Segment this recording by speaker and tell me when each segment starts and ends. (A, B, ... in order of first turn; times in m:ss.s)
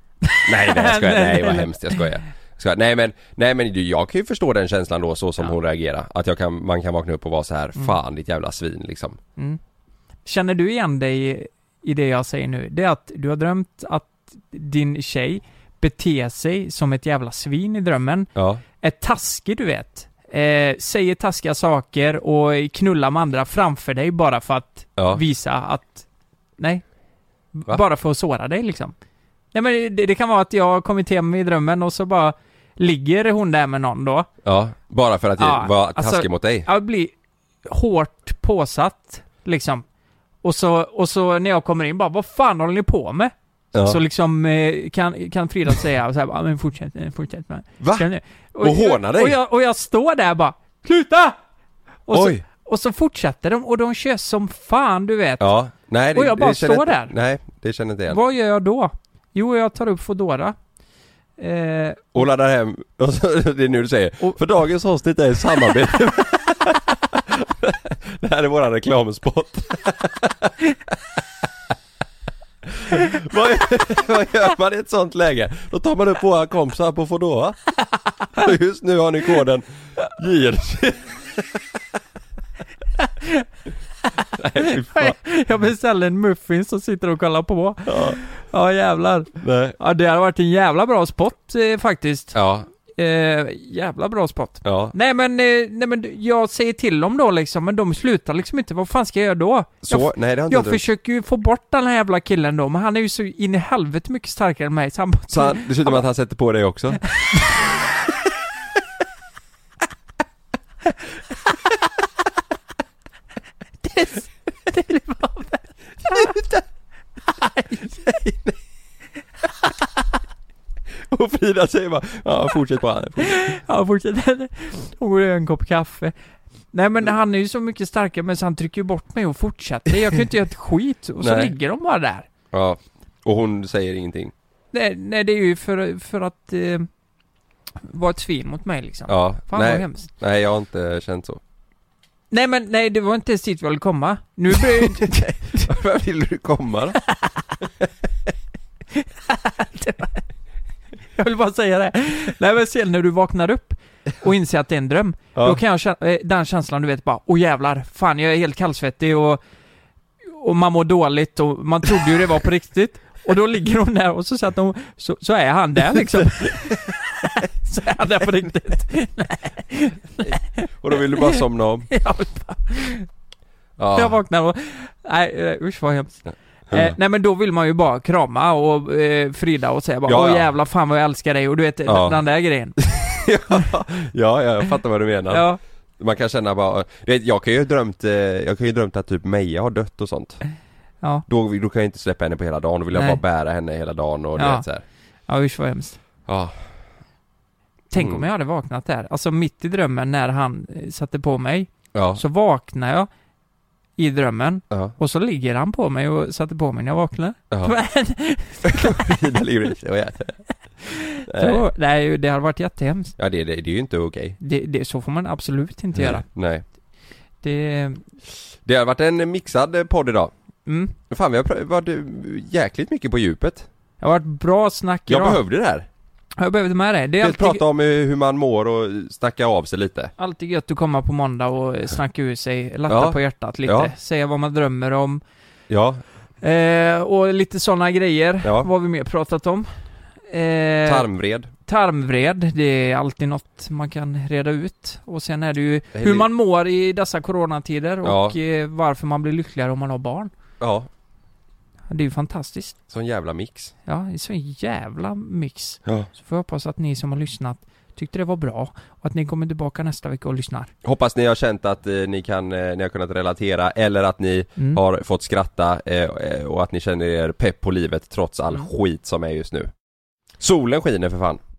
0:00.2-0:02.0 A
0:00.4-0:09.2 B
0:10.2-0:18.3 A
0:18.4-0:18.6 B
0:18.8-0:26.0 A
0:25.0-0:25.2 B
0:26.6-0:26.8 A
0:27.5-0:28.9 A
0:29.5-0:34.3 A
0:34.4-0:36.7 B
0:35.4-0:37.1 A
0:37.6-0:39.8 A
0:40.4-0:51.4 A
0:43.7-0:44.0 B
0:47.8-0:48.1 B
0:48.6-0:49.4 B
0:52.1-0:55.5 A
0:52.1-0:52.4 B
0:55.4-0:58.2 B
0:56.1-0:57.1 A
0:58.1-1:00.6 A
1:01.4-1:02.2 A
1:02.1-1:10.5 B
1:12.8-1:17.6 B
1:18.3-1:21.1 B
1:23.0-1:23.5 A
1:24.2-1:46.0 A
1:24.4-1:25.2 B
1:27.9-1:28.2 B
1:29.4-1:29.8 B
1:32.3-1:32.7 B
1:34.6-1:34.9 B
1:39.8-1:40.8 B
1:45.3-1:47.0 B
1:53.8-1:56.4 A
1:56.3-1:56.6 B
1:57.2-1:58.0 A
1:58.0-1:58.5 B
2:01.1-2:03.4 B
2:03.2-2:06.1 A
2:06.7-2:12.3 A
2:11.2-2:11.5 B
2:12.5-2:14.3 B
2:14.7-2:16.9 A
2:17.8-2:20.1 A
2:19.1-2:21.4 B
2:22.3-2:25.8 A
2:25.6-2:27.0 B
2:27.1-2:27.3 A
2:28.9-2:30.3 A
2:31.1-2:39.4 A
2:35.3-2:35.6 B
2:40.2-2:53.1 A
2:50.8-2:51.9 B
2:53.8-2:54.2 B
2:53.9-3:02.8 A
2:56.7-2:57.0 B
3:00.1-3:00.5 B
3:01.8-3:02.2 B
3:02.8-3:05.5 B
3:05.3-3:05.6 A
3:06.0-3:10.4 B
3:11.3-3:14.8 B
3:12.9-3:13.2 A
3:14.4-3:14.6 A
3:15.3-3:16.0 A
3:16.3-3:16.5 B
3:17.9-3:23.1 A
3:18.0-3:18.2 B
3:21.9-3:22.2 B
3:24.0-3:29.4 A
3:28.6-3:30.4 B
3:30.8-3:33.2 A
3:31.2-3:31.6 B
3:33.2-3:34.4 B
3:34.4-3:36.2 A
3:35.9-3:36.6 B
3:37.4-3:38.0 A
3:38.6-3:40.3 B
3:40.6-3:40.9 A
3:41.1-3:43.7 B
3:44.0-3:45.4 A
3:45.1-3:45.9 B
3:46.4-3:47.6 A
3:47.2-3:50.1 B
3:50.2-3:55.2 A
3:52.9-3:53.9 B
3:55.7-3:56.0 B
3:56.4-3:59.7 A
3:58.4-3:58.7 B
4:00.3-4:01.1 A
4:00.8-4:01.5 B
4:01.7-4:10.3 A
4:05.9-4:06.3 B
4:08.0-4:08.4 B
4:10.6-4:10.9 B
4:11.9-4:12.8 A
4:12.9-4:13.7 B
4:13.8-4:20.7 A
4:20.8-4:29.7 B
4:30.4-4:31.4 B